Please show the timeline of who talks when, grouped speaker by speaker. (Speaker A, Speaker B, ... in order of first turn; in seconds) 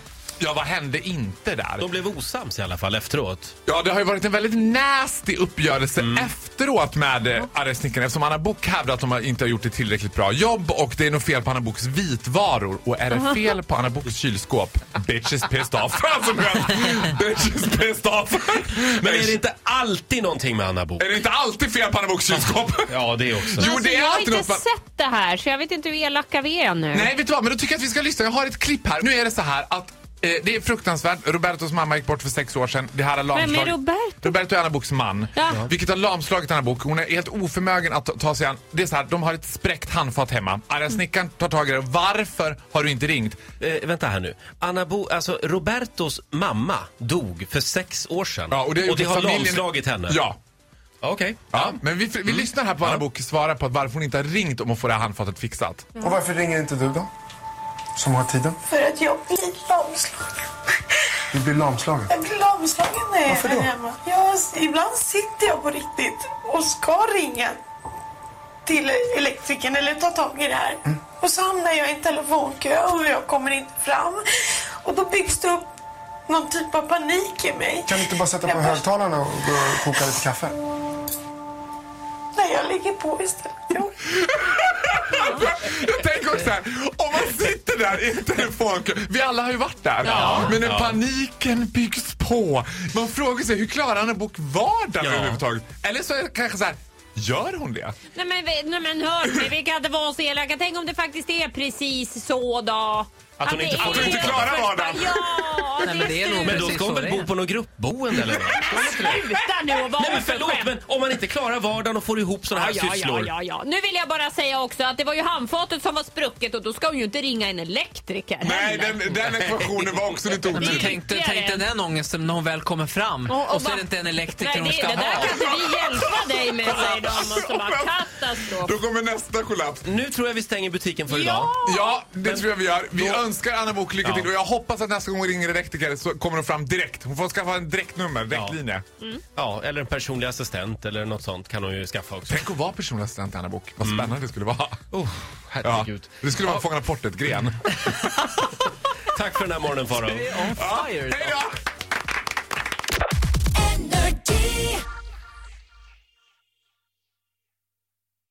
Speaker A: 0.4-1.9, 3.7-19.4, 21.0-24.6, 26.9-43.4, 48.5-50.4, 51.5-56.0, 84.2-98.0, 103.8-105.6, 118.4-121.0, 125.4-127.9, 128.5-129.8, 131.6-138.8, 142.3-144.8, 145.6-147.6, 150.6-151.5
Speaker B: 1.8-3.5, 6.0-6.3, 18.9-21.1, 22.3-23.7, 43.6-50.2, 51.0-51.8, 52.3-53.0, 90.2-91.0, 95.0-95.4, 103.4-104.6, 106.4-109.2, 110.0-113.3, 129.8-131.6, 132.2-133.2, 134.0-134.3, 138.3-138.6, 139.3-142.4, 143.8-144.1, 144.9-146.2, 149.1-150.4
Speaker C: 23.6-27.1, 33.3-34.3, 85.1-85.5, 90.0-90.5, 98.2-106.8, 108.4-110.7, 112.5-119.2, 120.6-121.7, 123.3-128.8, 131.1-132.0
Speaker D: 56.0-57.1, 58.0-58.6, 61.3-62.1, 63.3-63.7, 77.9-80.6
Speaker E: 58.7-60.5, 62.1-67.6, 68.7-74.2, 74.8-75.7, 76.3-78.8, 82.3-83.9
Speaker F: 105.8-107.3, 119.2-119.7, 120.4-125.5, 150.0-151.4